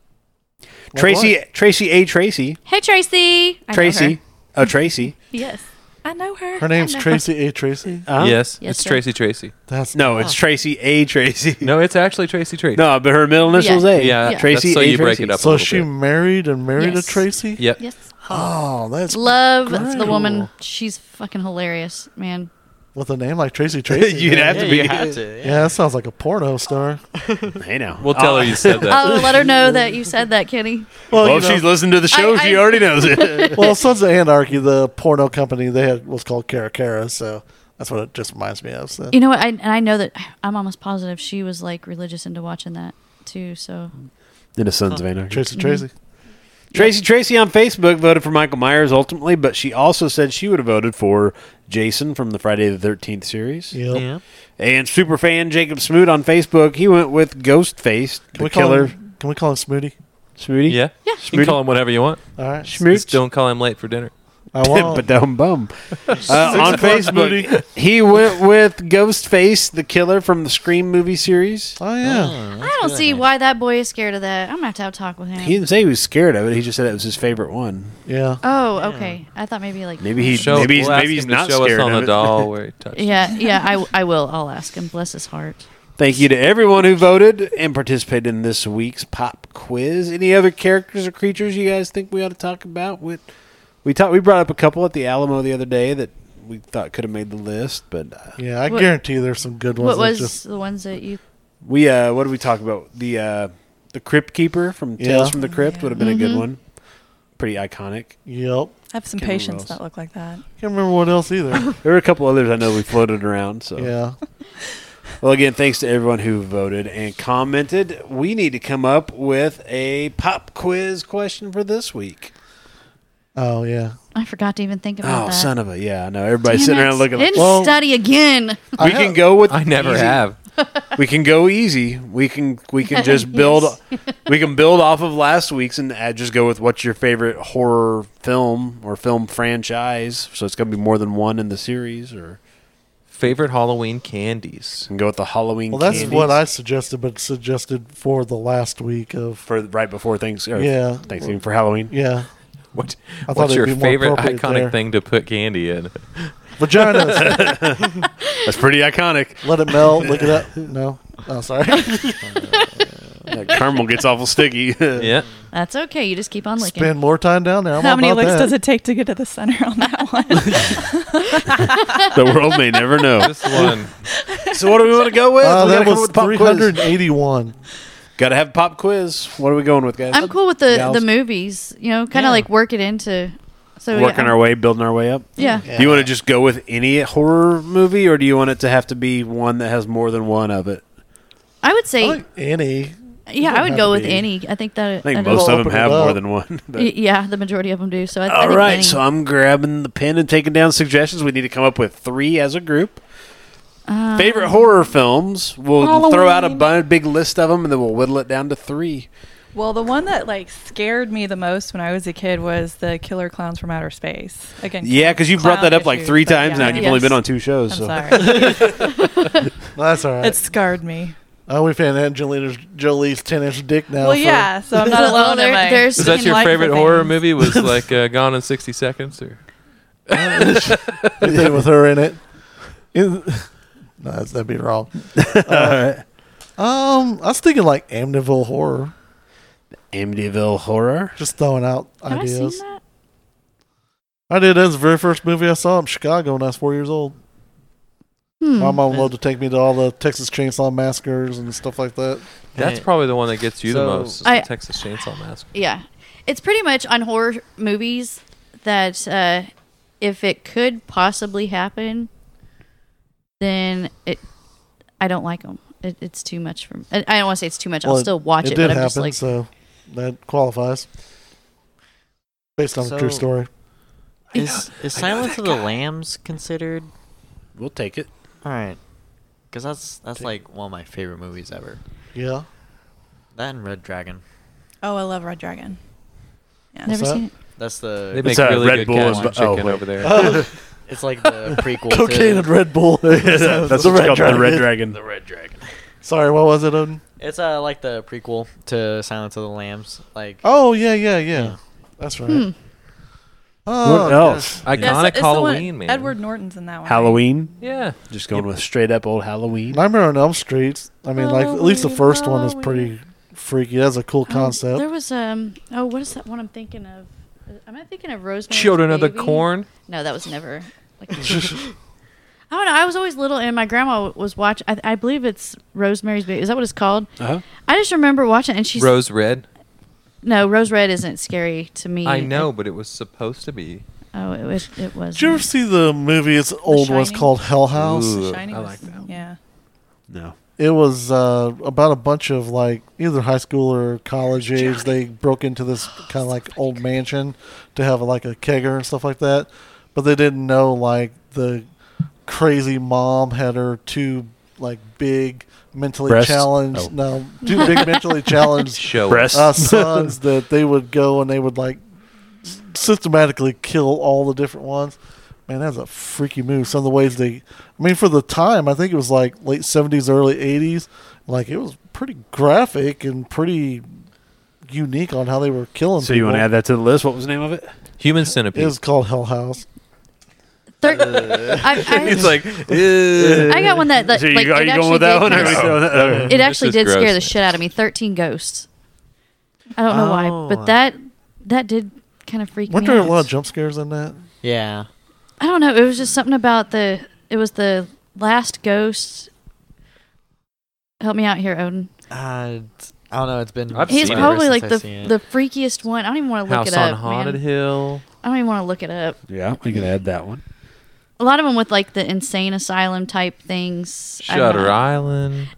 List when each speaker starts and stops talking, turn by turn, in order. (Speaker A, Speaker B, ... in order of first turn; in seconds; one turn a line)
Speaker A: 0.9-1.3
Speaker B: 0.9-2.6
Speaker C: 2.6-4.2
Speaker B: 3.7-5.1
Speaker C: 5.3-5.6
Speaker D: 6.0-7.1
Speaker A: 6.6-8.1
Speaker C: 6.8-7.2
Speaker B: 8.1-8.4
Speaker E: 8.2-9.5
Speaker C: 8.6-9.0
Speaker A: 9.7-10.3
Speaker B: 9.9-11.7
Speaker E: 11.6-12.8
Speaker B: 12.7-15.4
Speaker C: 13.5-14.5
Speaker E: 13.9-15.9
Speaker A: 15.4-17.6
Speaker C: 16.8-17.2
Speaker A: 18.3-20.5
Speaker C: 19.1-22.5
Speaker A: 22.9-27.0
Speaker B: 23.9-25.2
Speaker F: 24.5-25.7
Speaker F: 27.2-27.6
Speaker B: 27.6-29.4
Speaker E: 28.0-29.4
Speaker C: 28.8-30.9
Speaker A: 31.1-31.7
Speaker B: 31.1-33.7
Speaker C: 32.1-33.8
Speaker A: 33.5-39.1
Speaker C: 39.1-43.9
Speaker B: 44.5-45.5
Speaker A: 45.3-45.9
Speaker C: 45.5-45.9
Speaker B: 46.7-53.8
Speaker A: 53.7-54.0
Speaker F: 53.9-54.2
Speaker B: 54.6-58.9
Speaker A: 58.4-59.9
Speaker B: 60.4-61.6
Speaker E: 60.7-62.2
Speaker A: 62.4-63.0
Speaker B: 62.6-63.1
Speaker E: 62.9-64.1
Speaker A: 64.5-65.1
Speaker B: 64.6-71.8
Speaker A: 66.2-67.6
Speaker A: 71.8-72.4
Speaker F: 72.0-73.2
Speaker C: 72.6-75.6
Speaker B: 75.4-78.0
Speaker A: 78.0-78.4
Speaker C: 78.4-81.0
Speaker F: 78.8-79.2
Speaker B: 80.0-82.5
Speaker E: 80.3-83.3
Speaker C: 82.9-85.6
Speaker B: 86.0-93.2
Speaker B: 93.8-98.4
Speaker A: 98.4-100.4
Speaker C: 98.7-98.9
Speaker C: 99.8-101.2
Speaker B: 101.6-106.6
Speaker A: 105.0-105.3
Speaker D: 105.4-106.1
Speaker C: 106.0-106.5
Speaker B: 107.4-108.2
Speaker A: 108.2-108.7
Speaker D: 108.9-110.4
Speaker B: 109.2-109.8
Speaker A: 110.6-111.7
Speaker B: 111.8-113.9
Speaker A: 113.8-114.2
Speaker B: 115.2-122.3
Speaker A: 123.3-124.0
Speaker C: 124.1-125.5
Speaker B: 125.0-127.6
Speaker C: 126.5-128.8
Speaker A: 127.3-127.7
Speaker A: 128.8-129.3
Speaker B: 128.8-130.2
Speaker E: 129.5-130.3
Speaker B: 130.9-142.4
Speaker C: 132.9-133.8
Speaker E: 143.1-144.9
Speaker B: 144.9-146.4
Speaker A: 145.7-149.4
Speaker E: 145.8-146.2
Speaker B: 149.4-151.9
Speaker A: 150.5-152.3
Speaker E: 152.7-156.3
Speaker A: 153.3-154.7
Speaker A: 156.6-157.6
Speaker B: 157.1-160.3
Speaker A: 159.4-162.9
Speaker B: 163.3-165.2
Speaker E: 164.9-165.2
Speaker C: 165.5-166.9
Speaker A: 166.6-168.5
Speaker D: 167.8-172.0
Speaker B: 172.1-173.6
Speaker E: 173.2-173.9
Speaker D: 173.6-175.0
Speaker B: 174.5-176.8
Speaker A: 175.4-177.6
Speaker B: 178.2-181.1
Speaker C: 180.1-184.4
Speaker B: 183.9-190.8
Speaker C: 185.4-185.6
Speaker A: 185.7-186.1
Speaker C: 191.6-192.2
Speaker A: 192.0-194.3
Speaker C: 193.3-195.7
Speaker B: 195.0-196.9
Speaker A: 195.2-196.2
Speaker C: 196.7-199.0
Speaker B: 198.2-203.0
Speaker C: 203.9-204.9
Speaker B: 204.2-209.1
Speaker D: 209.5-219.0
Speaker B: 214.8-218.8
Speaker C: 216.6-217.1
Speaker A: 219.7-220.4
Speaker D: 220.2-221.2
Speaker A: 221.5-224.5
Speaker D: 224.0-227.1
Speaker C: 224.7-227.1
Speaker E: 225.9-229.4
Speaker E: 230.1-231.2
Speaker A: 230.1-232.2
Speaker B: 231.2-231.5
Speaker A: 232.9-235.8
Speaker B: 235.2-236.0
Speaker A: 236.6-238.9
Speaker B: 239.9-241.2
Speaker A: 241.2-242.6
Speaker C: 242.1-242.8
Speaker A: 244.3-247.2
Speaker C: 248.4-248.8
Speaker A: 248.6-252.2
Speaker F: 252.5-252.8
Speaker E: 252.5-255.5
Speaker F: 253.6-254.2
Speaker C: 255.5-259.5
Speaker C: 260.0-262.1
Speaker C: 263.4-264.2
Speaker C: 265.0-269.2
Speaker A: 267.8-270.9
Speaker A: 272.6-273.5
Speaker F: 272.8-273.2
Speaker F: 274.3-276.9
Speaker C: 274.3-274.6
Speaker B: 277.6-278.1
Speaker F: 278.4-278.8
Speaker F: 279.5-281.8
Speaker A: 282.1-282.4
Speaker F: 283.4-284.2
Speaker D: 284.8-285.8
Speaker C: 286.8-287.3
Speaker A: 286.9-287.2
Speaker F: 287.6-290.2
Speaker E: 288.1-290.3
Speaker B: 288.2-290.5
Speaker A: 290.0-290.5
Speaker F: 290.9-292.5
Speaker A: 291.8-294.7
Speaker B: 293.1-295.0
Speaker F: 293.3-295.6
Speaker A: 296.0-297.0
Speaker F: 297.2-300.4
Speaker A: 300.4-302.4
Speaker C: 302.3-302.5
Speaker A: 303.6-304.7
Speaker B: 303.8-304.9
Speaker E: 304.6-306.1
Speaker D: 304.7-307.2
Speaker B: 306.9-309.8
Speaker E: 307.6-308.5
Speaker A: 309.7-314.8
Speaker C: 311.1-312.9
Speaker C: 314.3-321.7
Speaker E: 318.5-319.7
Speaker C: 322.5-327.1
Speaker B: 327.2-327.4
Speaker C: 327.6-328.9
Speaker E: 328.8-329.4
Speaker C: 330.2-332.5
Speaker E: 332.0-333.8
Speaker C: 334.1-335.4
Speaker A: 335.1-338.2
Speaker D: 336.7-337.3
Speaker E: 337.7-339.0
Speaker D: 338.0-339.4
Speaker B: 340.1-340.4
Speaker A: 340.6-351.6
Speaker A: 352.2-361.8
Speaker B: 356.1-356.9
Speaker C: 357.4-358.1
Speaker E: 358.7-359.4
Speaker B: 359.1-360.1
Speaker A: 362.4-373.8
Speaker A: 374.7-376.5
Speaker B: 376.0-377.7
Speaker E: 378.0-378.8
Speaker A: 378.5-379.6
Speaker C: 380.8-382.3
Speaker F: 380.9-381.6
Speaker B: 381.0-386.3
Speaker E: 381.9-383.8
Speaker C: 383.5-388.7
Speaker E: 385.3-387.4
Speaker F: 385.9-386.3
Speaker C: 389.8-393.3
Speaker F: 389.9-390.7
Speaker A: 392.7-394.2
Speaker F: 394.4-394.9
Speaker C: 395.4-399.3
Speaker C: 401.0-401.9
Speaker F: 402.1-405.1
Speaker E: 403.7-404.4
Speaker C: 403.9-407.4
Speaker E: 406.5-408.0
Speaker C: 408.2-409.2
Speaker B: 409.3-410.4
Speaker C: 411.2-414.8
Speaker E: 414.2-415.5